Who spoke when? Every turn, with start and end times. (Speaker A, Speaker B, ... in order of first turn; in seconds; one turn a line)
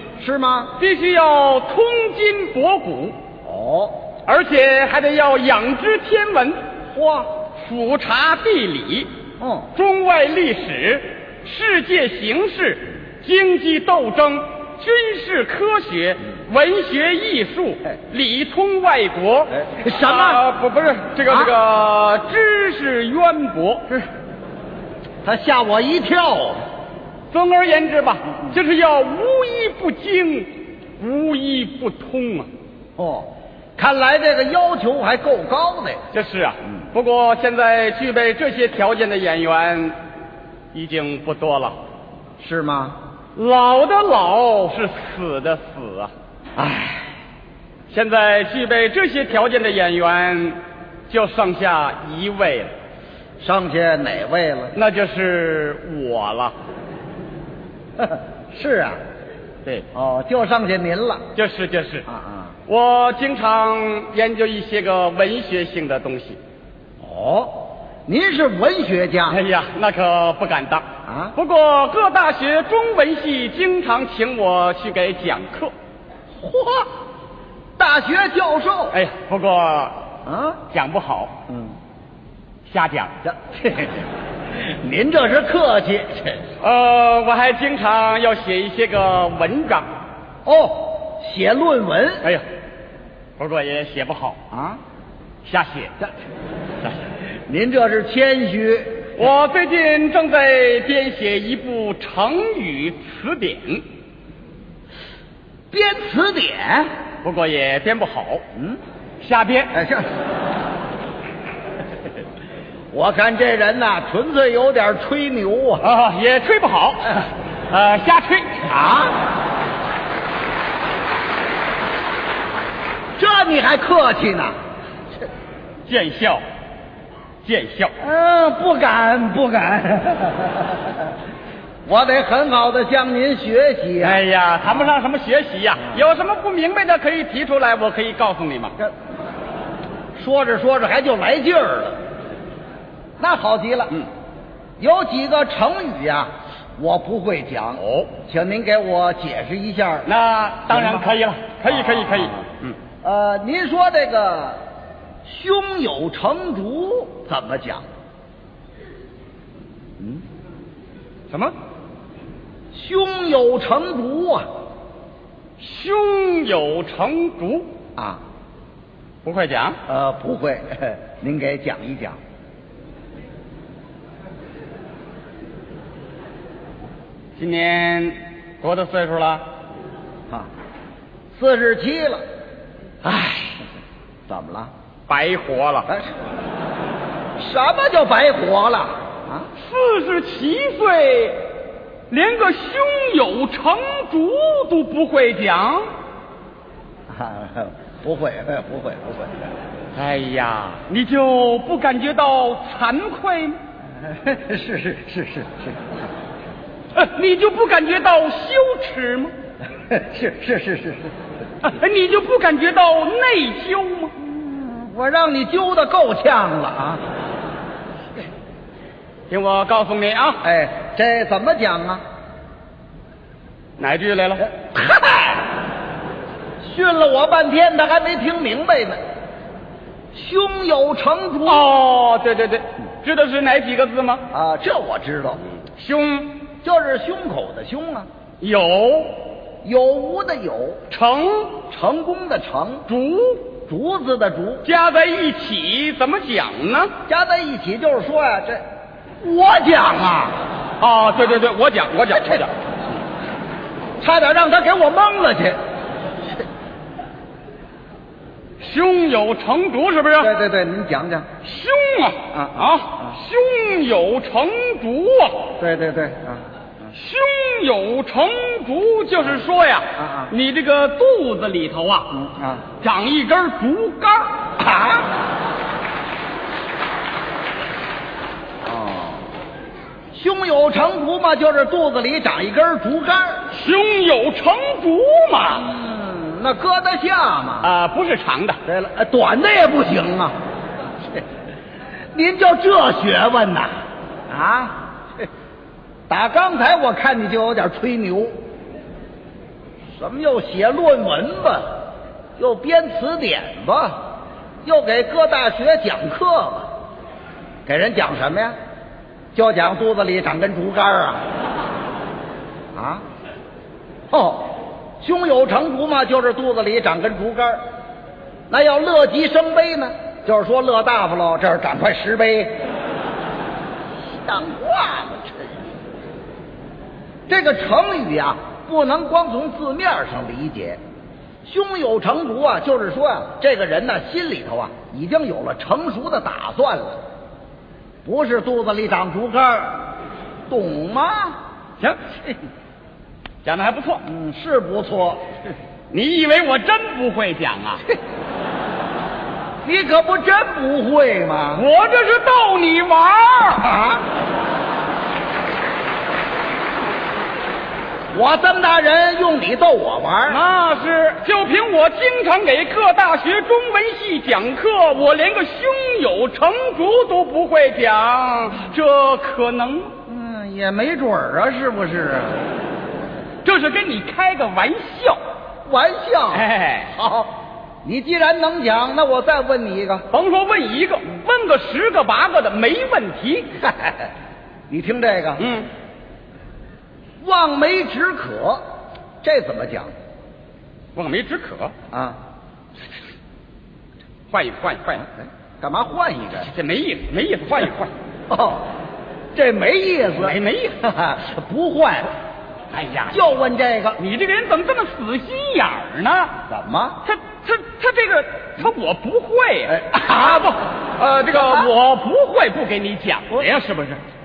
Speaker A: 0.2-0.8
Speaker B: 0.8-3.2
Speaker A: 3.4-4.0
Speaker B: 4.2-6.6
Speaker A: 6.9-7.3
Speaker B: 7.5-9.1
Speaker A: 9.4-9.7
Speaker B: 9.8-23.9
Speaker A: 19.5-20.4
Speaker A: 25.2-26.6
Speaker B: 27.3-32.5
Speaker A: 33.0-36.0
Speaker B: 36.1-40.0
Speaker B: 40.7-41.8
Speaker A: 42.4-43.0
Speaker B: 43.4-46.1
Speaker A: 46.5-47.1
Speaker B: 47.9-52.7
Speaker A: 53.4-54.8
Speaker B: 54.7-56.5
Speaker A: 58.0-59.0
Speaker A: 59.9-61.2
Speaker B: 61.4-62.0
Speaker A: 62.1-62.6
Speaker B: 62.7-66.4
Speaker A: 67.0-69.4
Speaker B: 69.3-75.7
Speaker A: 71.1-71.3
Speaker A: 76.4-76.9
Speaker A: 77.8-79.0
Speaker B: 78.9-80.0
Speaker A: 80.2-80.6
Speaker B: 80.7-81.3
Speaker A: 81.5-81.8
Speaker B: 82.7-83.1
Speaker A: 83.2-86.4
Speaker B: 86.6-89.9
Speaker A: 90.5-92.2
Speaker B: 93.4-94.4
Speaker A: 94.5-94.8
Speaker B: 95.4-96.0
Speaker A: 97.5-99.1
Speaker B: 99.2-103.8
Speaker A: 105.7-106.9
Speaker B: 107.2-108.4
Speaker B: 109.2-109.7
Speaker A: 109.7-110.1
Speaker A: 112.9-115.8
Speaker B: 115.8-118.6
Speaker A: 118.6-119.2
Speaker A: 123.2-124.5
Speaker B: 125.8-126.4
Speaker B: 127.4-127.9
Speaker A: 128.0-131.1
Speaker A: 131.8-134.2
Speaker B: 134.0-138.8
Speaker A: 140.2-142.0
Speaker A: 143.2-144.0
Speaker A: 144.8-150.1
Speaker B: 147.8-148.1
Speaker B: 150.1-152.8
Speaker A: 150.7-151.1
Speaker A: 151.8-152.3
Speaker A: 153.0-154.6
Speaker A: 155.2-157.8
Speaker A: 162.7-164.5
Speaker B: 165.6-167.7
Speaker A: 168.0-168.2
Speaker B: 169.2-169.8
Speaker A: 169.9-172.2
Speaker B: 177.4-179.4
Speaker A: 181.3-182.2
Speaker B: 183.0-183.6
Speaker A: 184.3-184.7
Speaker B: 185.1-185.9
Speaker A: 187.4-189.5
Speaker B: 189.6-191.5
Speaker B: 192.1-195.8
Speaker A: 197.1-199.4
Speaker B: 199.9-203.6
Speaker A: 204.0-205.9
Speaker B: 206.9-209.3
Speaker A: 209.8-211.1
Speaker B: 211.6-214.1
Speaker A: 214.2-217.0
Speaker B: 219.3-220.4
Speaker A: 220.4-222.0
Speaker B: 223.8-224.5
Speaker A: 224.4-225.5
Speaker A: 226.6-229.0
Speaker A: 230.1-231.7
Speaker B: 231.5-234.2
Speaker A: 234.3-235.4
Speaker B: 235.6-236.4
Speaker A: 236.6-238.1
Speaker B: 238.4-239.2
Speaker A: 239.6-240.8
Speaker B: 240.9-241.6
Speaker A: 241.7-242.9
Speaker B: 242.9-243.5
Speaker A: 243.7-244.7
Speaker B: 244.6-246.9
Speaker A: 247.1-248.6
Speaker A: 249.2-250.4
Speaker B: 250.8-252.5
Speaker A: 254.0-255.6
Speaker B: 258.6-260.3
Speaker A: 260.2-261.3
Speaker B: 261.4-265.5
Speaker A: 262.3-263.2
Speaker A: 265.6-266.9
Speaker B: 266.9-272.1
Speaker A: 270.0-270.3
Speaker A: 272.1-272.6
Speaker B: 272.8-274.4
Speaker A: 274.6-275.1
Speaker A: 278.6-279.3
Speaker A: 280.1-283.4
Speaker B: 283.5-285.7
Speaker A: 285.5-287.7
Speaker B: 287.6-288.6
Speaker A: 288.6-290.4
Speaker A: 292.1-293.7
Speaker A: 294.3-294.9
Speaker A: 296.1-298.4
Speaker A: 299.9-301.9
Speaker A: 302.4-304.1
Speaker A: 304.6-306.7
Speaker A: 307.6-308.6
Speaker A: 309.3-311.2
Speaker A: 312.7-313.0
Speaker A: 314.1-317.6
Speaker A: 318.5-322.6
Speaker A: 324.0-325.6
Speaker A: 327.3-330.8
Speaker A: 331.4-337.0
Speaker A: 338.0-339.9
Speaker A: 340.5-341.4
Speaker B: 341.8-342.3
Speaker B: 343.4-344.0
Speaker A: 344.0-345.3
Speaker B: 345.9-347.8
Speaker A: 349.6-351.6
Speaker B: 351.5-353.7
Speaker A: 353.5-354.1
Speaker A: 358.1-360.4
Speaker B: 360.3-369.9
Speaker A: 370.1-372.4
Speaker B: 373.4-375.2
Speaker A: 375.6-380.0
Speaker B: 376.3-376.9
Speaker B: 380.1-383.6
Speaker A: 383.6-384.1
Speaker A: 384.7-385.4
Speaker B: 385.4-385.7
Speaker A: 387.2-388.6
Speaker A: 389.2-389.9
Speaker B: 390.9-391.7
Speaker A: 391.9-392.2
Speaker B: 394.3-395.0
Speaker A: 395.0-396.5
Speaker B: 396.4-397.9
Speaker A: 398.3-398.7
Speaker A: 399.3-402.1
Speaker B: 400.1-400.8
Speaker B: 402.7-403.2
Speaker A: 403.1-404.0
Speaker B: 404.0-406.3
Speaker A: 406.5-407.0
Speaker B: 407.0-409.8
Speaker A: 409.6-410.6
Speaker B: 410.8-414.0
Speaker A: 411.3-411.7